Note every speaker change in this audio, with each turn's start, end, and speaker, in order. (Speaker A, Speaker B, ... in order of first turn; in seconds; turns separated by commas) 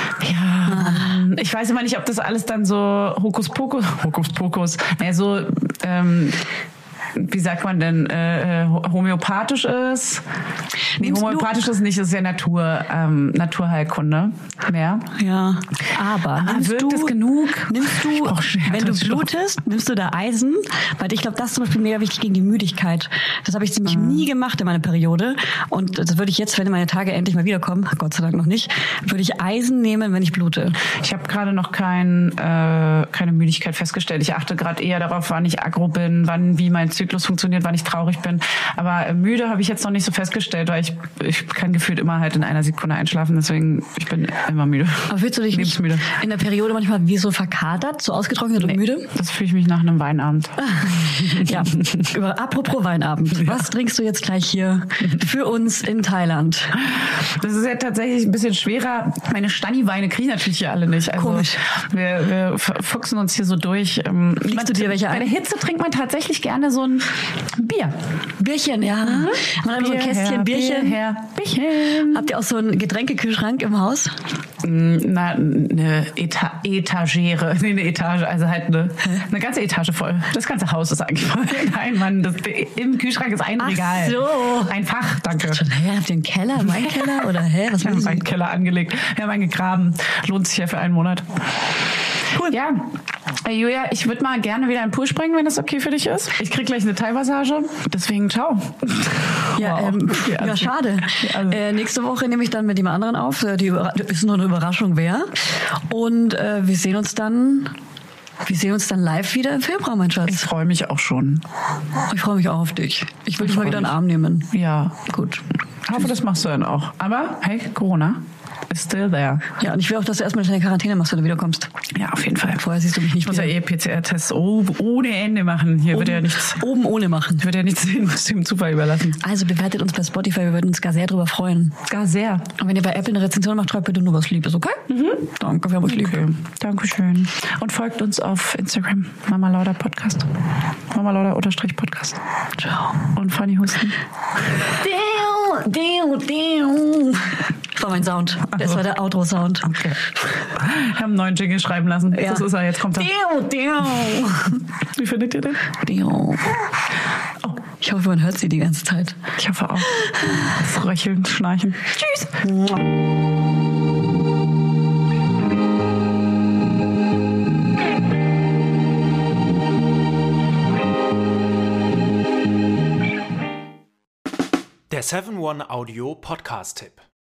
Speaker A: 0.2-6.4, Speaker B: 0.7-1.2, Speaker A: 7.1-10.2, Speaker B: 11.0-11.6, Speaker A: 11.0-15.1, Speaker B: 15.2-17.1, Speaker A: 16.4-19.3, Speaker B: 17.7-30.8, Speaker A: 23.9-24.3, Speaker A: 30.9-46.1, Speaker B: 45.1-49.1, Speaker A: 48.6-51.9, Speaker B: 50.6-56.8, Speaker A: 56.8-68.0, Speaker B: 61.2-61.6, Speaker B: 64.4-65.3, Speaker B: 68.4-71.0, Speaker A: 69.0-72.3, Speaker B: 71.8-74.2, Speaker A: 74.6-85.7, Speaker B: 83.6-84.8, Speaker B: 85.4-88.2, Speaker A: 86.6-91.4, Speaker A: 92.3-101.7, Speaker B: 99.5-107.8, Speaker B: 108.4-110.5, Speaker A: 110.3-111.5, Speaker B: 112.1-114.5, Speaker A: 113.4-114.0, Speaker A: 114.5-115.1, Speaker B: 115.1-115.4, Speaker A: 115.8-119.5, Speaker B: 119.6-121.7, Speaker A: 121.9-126.7, Speaker B: 122.6-123.5, Speaker B: 125.9-127.5, Speaker A: 127.4-129.2, Speaker B: 129.2-131.8, Speaker A: 131.9-132.5, Speaker B: 132.6-136.3, Speaker A: 134.9-135.3, Speaker A: 135.8-140.3, Speaker A: 140.9-142.2, Speaker B: 142.6-143.1, Speaker A: 143.1-144.0, Speaker B: 144.7-149.8, Speaker A: 148.6-148.8, Speaker A: 149.7-150.0, Speaker A: 150.6-153.1, Speaker B: 152.1-154.6, Speaker A: 154.9-155.8, Speaker B: 155.8-156.6, Speaker B: 157.8-159.2, Speaker A: 159.4-162.4, Speaker B: 160.1-160.5, Speaker B: 162.4-162.8, Speaker C: 174.9-177.1